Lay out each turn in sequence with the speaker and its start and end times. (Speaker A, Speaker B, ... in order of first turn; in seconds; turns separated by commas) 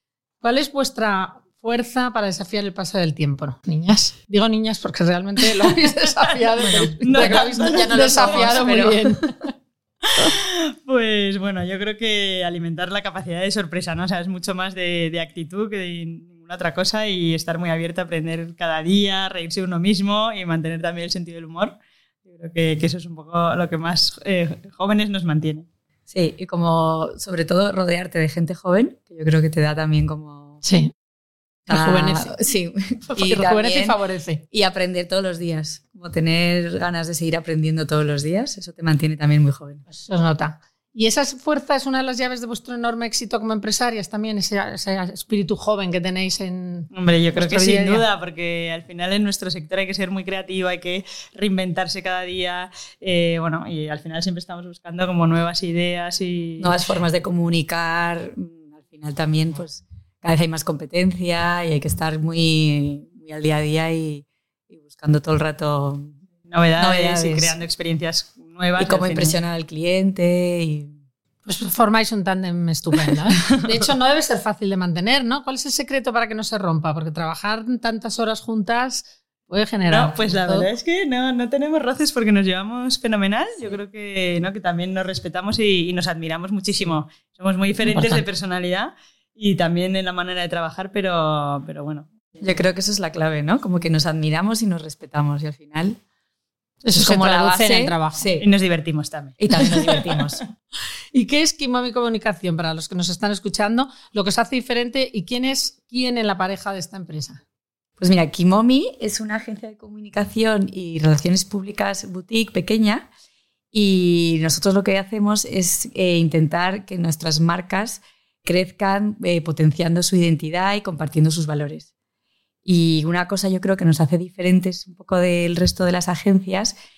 Speaker A: 0.4-9.3, Speaker B: 6.6-9.3, Speaker C: 7.0-8.8, Speaker C: 10.2-21.7, Speaker C: 22.3-25.7, Speaker B: 26.1-30.6, Speaker A: 30.6-30.9, Speaker A: 31.7-32.3, Speaker B: 31.7-34.0, Speaker A: 33.1-34.4, Speaker B: 34.5-39.8, Speaker A: 39.9-48.1, Speaker C: 46.9-56.8, Speaker B: 56.6-66.2, Speaker C: 66.5-69.4, Speaker B: 66.8-67.6, Speaker B: 68.8-70.9, Speaker A: 71.5-80.7, Speaker C: 79.9-92.1, Speaker A: 87.9-88.2, Speaker B: 92.4-96.0, Speaker A: 96.8-98.2, Speaker B: 96.9-98.5, Speaker C: 98.4-100.3, Speaker B: 99.4-100.4, Speaker A: 101.1-107.4, Speaker B: 108.0-113.0, Speaker B: 113.7-121.9, Speaker B: 122.7-126.7